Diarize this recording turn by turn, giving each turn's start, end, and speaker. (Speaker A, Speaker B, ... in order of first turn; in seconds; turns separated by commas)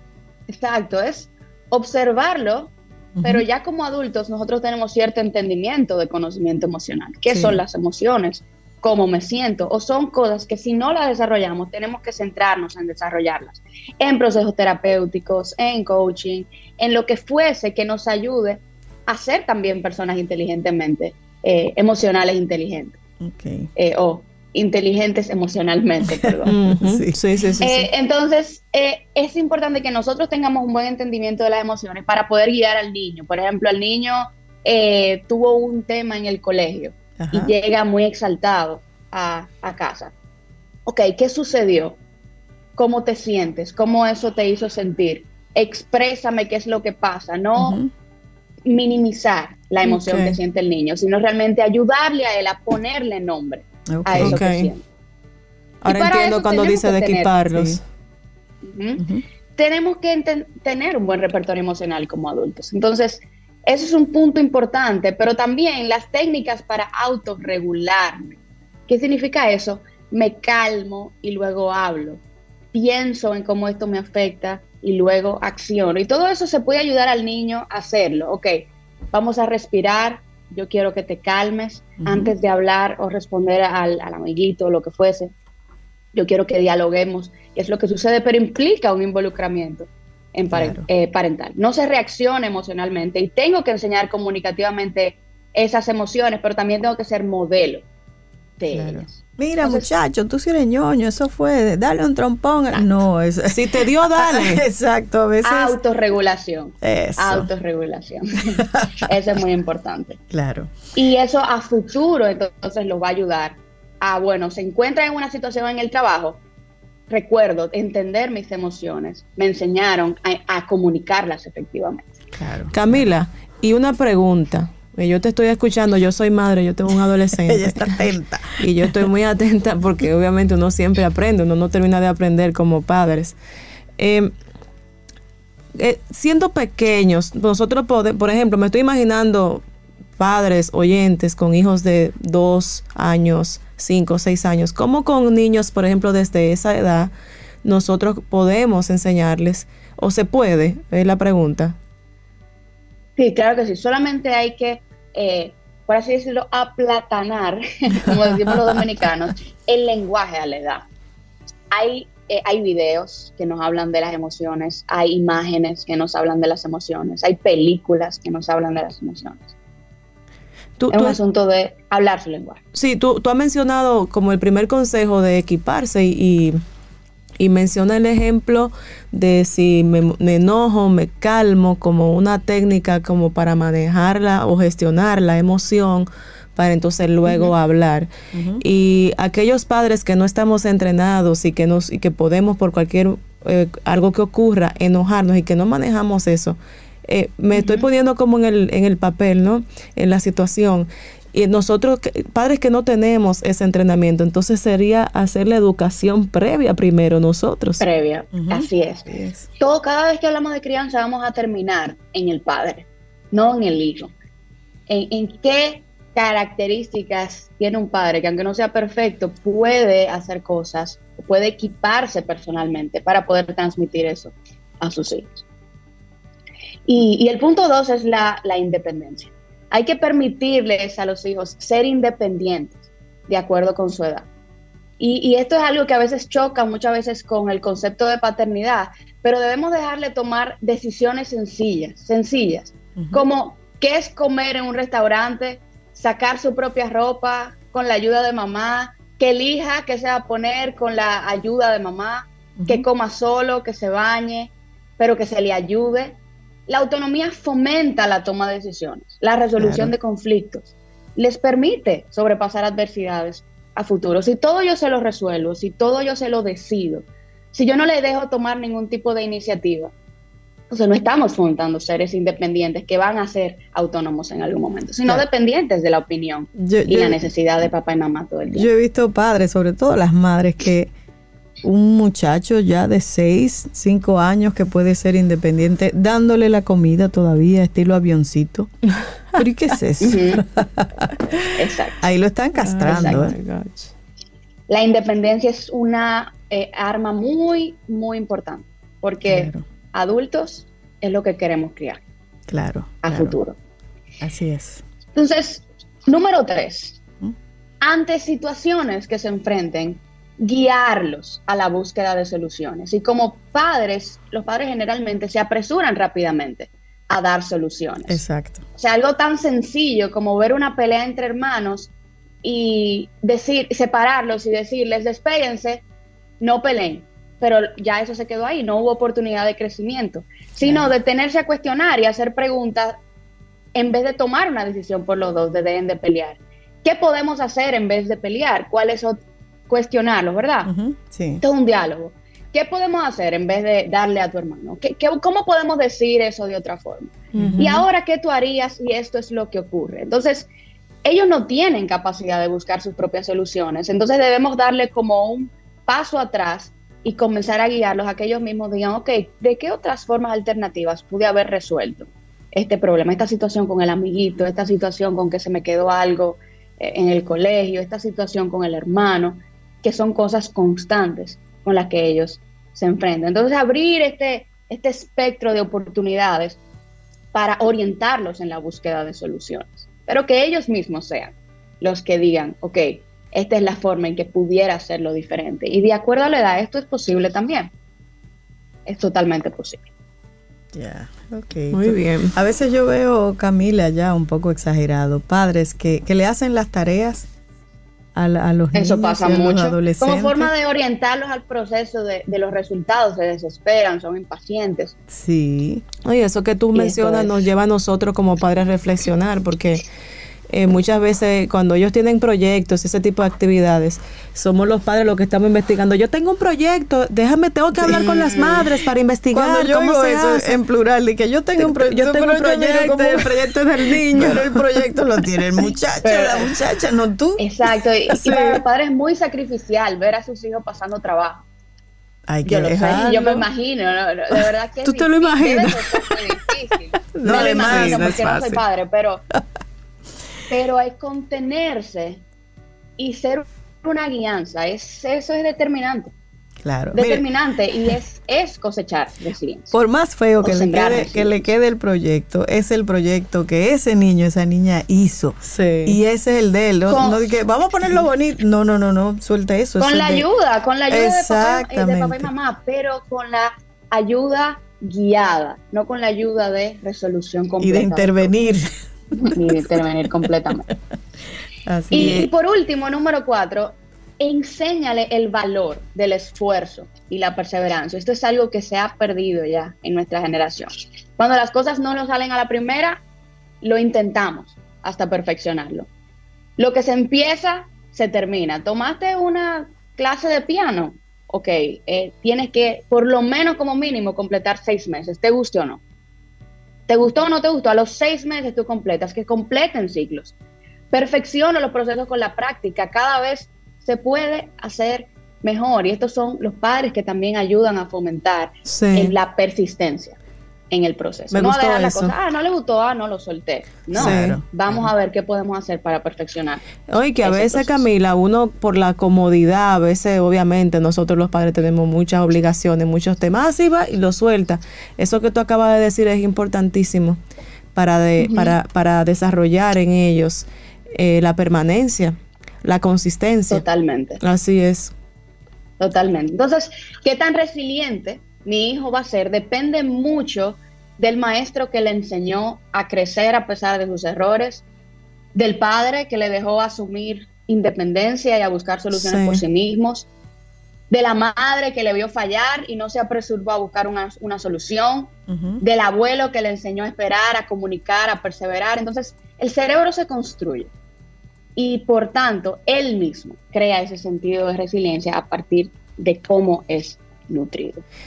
Speaker A: 0.5-23.0, Speaker B: 3.2-3.5, Speaker B: 7.3-7.6, Speaker B: 23.2-23.7, Speaker A: 23.8-26.6, Speaker B: 26.4-27.8, Speaker C: 26.4-27.8, Speaker A: 27.6-40.1, Speaker B: 37.2-37.5, Speaker A: 40.9-42.0, Speaker A: 42.8-47.8, Speaker B: 47.6-47.9, Speaker A: 48.7-54.9, Speaker C: 49.8-50.4, Speaker B: 53.9-54.4, Speaker C: 54.2-54.7, Speaker C: 55.8-57.8, Speaker A: 55.9-57.3, Speaker B: 57.5-57.8, Speaker A: 58.6-72.2, Speaker B: 59.0-59.2, Speaker A: 72.7-85.3, Speaker B: 82.0-82.3, Speaker A: 86.1-97.8, Speaker B: 90.5-90.9, Speaker A: 98.6-99.9, Speaker B: 98.7-105.8, Speaker C: 103.5-104.6, Speaker A: 105.4-110.2, Speaker B: 106.8-107.5, Speaker B: 110.3-110.7, Speaker A: 110.9-116.4, Speaker A: 117.1-122.1, Speaker B: 122.4-123.1, Speaker C: 122.7-128.0, Speaker B: 127.4-128.9, Speaker C: 128.6-133.4, Speaker C: 134.0-134.3, Speaker C: 135.8-139.6, Speaker C: 140.2-147.1, Speaker C: 147.6-151.8, Speaker A: 153.2-160.8, Speaker A: 161.7-169.5, Speaker C: 170.8-171.2, Speaker A: 170.9-172.6, Speaker C: 172.7-176.6, Speaker C: 177.4-207.8, Speaker B: 188.3-188.6, Speaker A: 197.6-197.9, Speaker A: 207.8-214.1, Speaker B: 208.3-209.5, Speaker A: 214.9-225.4, Speaker A: 226.9-234.3, Speaker A: 235.0-269.9, Speaker B: 243.0-243.2, Speaker B: 252.6-252.9, Speaker B: 259.6-259.9, Speaker A: 270.7-278.7, Speaker B: 276.6-277.2, Speaker B: 278.5-280.9, Speaker B: 281.6-288.7, Speaker B: 289.4-291.1, Speaker A: 290.0-290.4, Speaker A: 291.6-292.0, Speaker B: 292.0-293.3, Speaker C: 292.6-293.9, Speaker A: 292.9-293.3, Speaker A: 294.7-302.0, Speaker B: 299.3-299.6, Speaker B: 302.5-303.4, Speaker A: 303.0-303.6, Speaker B: 304.2-304.8, Speaker A: 305.1-307.0, Speaker A: 307.8-318.2, Speaker B: 318.1-318.6, Speaker A: 318.8-321.9, Speaker A: 322.4-325.8, Speaker A: 326.4-333.0, Speaker B: 330.6-330.9, Speaker A: 333.8-340.7, Speaker B: 340.7-341.4, Speaker A: 341.4-350.5, Speaker C: 347.3-347.8, Speaker B: 347.4-347.8, Speaker A: 351.0-376.6, Speaker A: 377.3-387.7, Speaker A: 388.9-389.8, Speaker B: 390.7-397.3, Speaker C: 391.7-392.3, Speaker B: 398.1-400.5, Speaker A: 398.7-404.9, Speaker B: 405.1-405.9, Speaker C: 406.1-409.8, Speaker A: 406.7-407.4, Speaker C: 410.5-420.6, Speaker A: 417.9-418.6, Speaker B: 419.3-427.4, Speaker C: 421.6-425.2, Speaker A: 426.0-426.5, Speaker A: 427.4-431.4, Speaker C: 428.3-428.5, Speaker B: 432.3-433.1, Speaker A: 432.4-439.3, Speaker C: 432.9-433.5, Speaker C: 434.8-435.8, Speaker C: 437.1-438.6, Speaker B: 437.2-438.2, Speaker A: 440.5-442.2, Speaker A: 443.0-446.1, Speaker B: 446.6-447.2, Speaker A: 446.9-449.8, Speaker B: 449.7-460.3, Speaker A: 450.4-451.5, Speaker C: 455.5-456.0, Speaker A: 456.9-457.4, Speaker A: 459.8-468.4, Speaker B: 460.9-462.3, Speaker B: 467.6-468.7, Speaker A: 469.2-470.7, Speaker B: 471.7-472.3, Speaker A: 471.9-483.0, Speaker A: 483.6-485.9, Speaker A: 486.6-495.8, Speaker A: 496.9-500.4, Speaker A: 500.9-510.2, Speaker C: 508.7-509.1, Speaker A: 510.7-516.7, Speaker C: 511.3-512.1, Speaker B: 513.9-514.9, Speaker C: 514.0-514.4, Speaker C: 516.9-527.2, Speaker A: 517.2-517.9, Speaker C: 527.8-533.6, Speaker A: 528.2-528.6, Speaker A: 533.5-534.2, Speaker C: 534.2-534.9, Speaker A: 535.8-544.6, Speaker A: 545.4-550.1, Speaker C: 548.9-549.4, Speaker A: 550.9-560.7, Speaker B: 555.3-555.6, Speaker A: 561.6-567.8